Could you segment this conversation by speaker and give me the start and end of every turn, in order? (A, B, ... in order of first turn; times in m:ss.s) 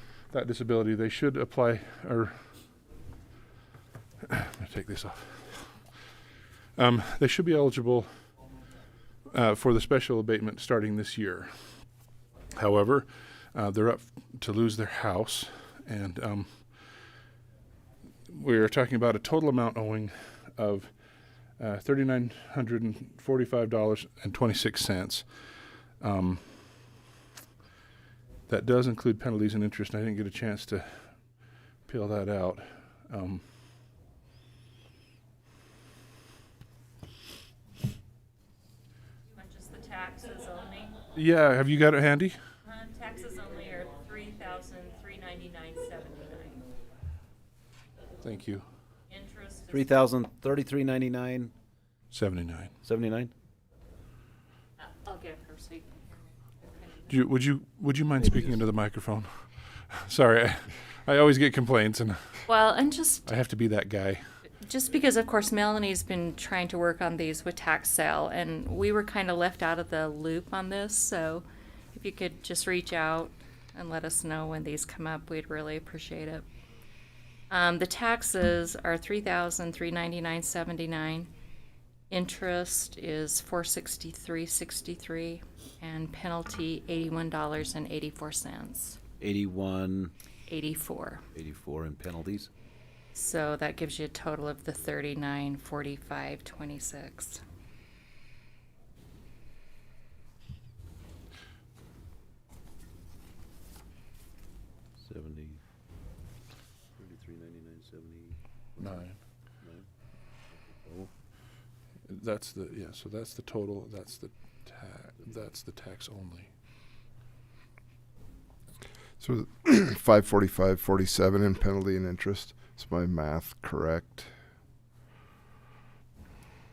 0:00.2-0:02.4 A
0:04.3-0:05.9 A
0:06.7-0:08.2 A
0:09.3-0:11.8 A
0:12.5-0:16.7 A
0:18.3-0:20.9 A
0:21.6-0:26.8 A
0:28.5-0:31.2 A
0:31.8-0:33.4 A
0:39.3-0:41.0 B
0:41.1-0:42.4 A
0:42.6-0:46.6 B
0:48.2-0:48.6 A
0:49.1-0:50.1 B
0:49.7-0:51.5 C
0:52.1-0:52.7 A
0:52.8-0:53.3 C
0:54.8-0:57.3 B
0:57.1-1:02.4 A
1:02.4-1:03.3 B
1:03.2-1:04.2 A
1:04.6-1:16.4 B
1:17.5-1:21.3 B
1:22.1-1:29.0 B
1:29.2-1:30.1 C
1:30.5-1:31.2 B
1:31.3-1:32.5 C
1:33.1-1:37.4 B
1:45.0-1:45.6 C
1:47.0-1:51.1 C
1:48.8-1:49.2 A
1:52.0-1:56.5 A
1:59.2-2:04.3 D